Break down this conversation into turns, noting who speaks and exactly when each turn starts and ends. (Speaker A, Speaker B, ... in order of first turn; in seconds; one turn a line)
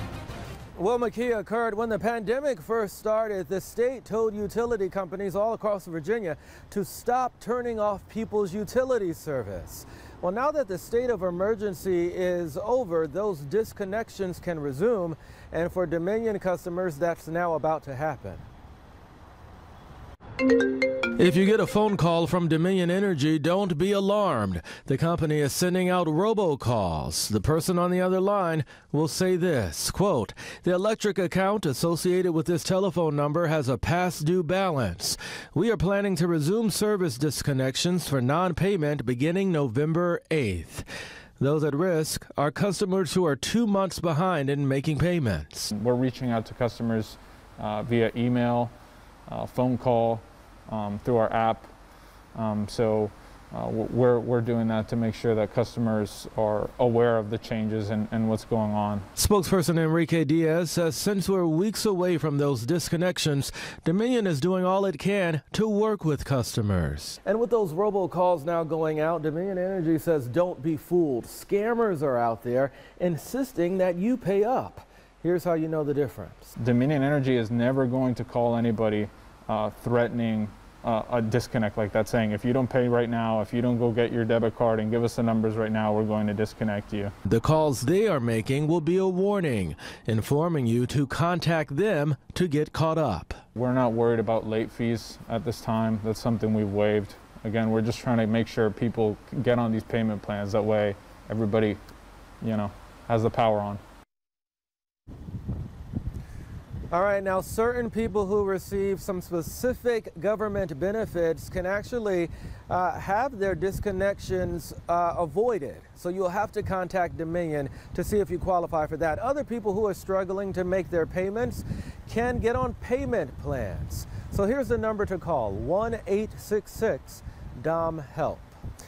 Speaker A: 0.8-18.4
Speaker A: 21.2-40.9
Speaker A: 41.4-45.7
Speaker B: 45.7-48.7
Speaker B: 49.3-51.7
Speaker B: 52.4-59.1
Speaker A: 59.1-76.5
Speaker B: 76.6-87.1
Speaker A: 87.3-93.4
Speaker B: 93.6-101.8
Speaker B: 102.4-103.8
Speaker A: 106.9-128.5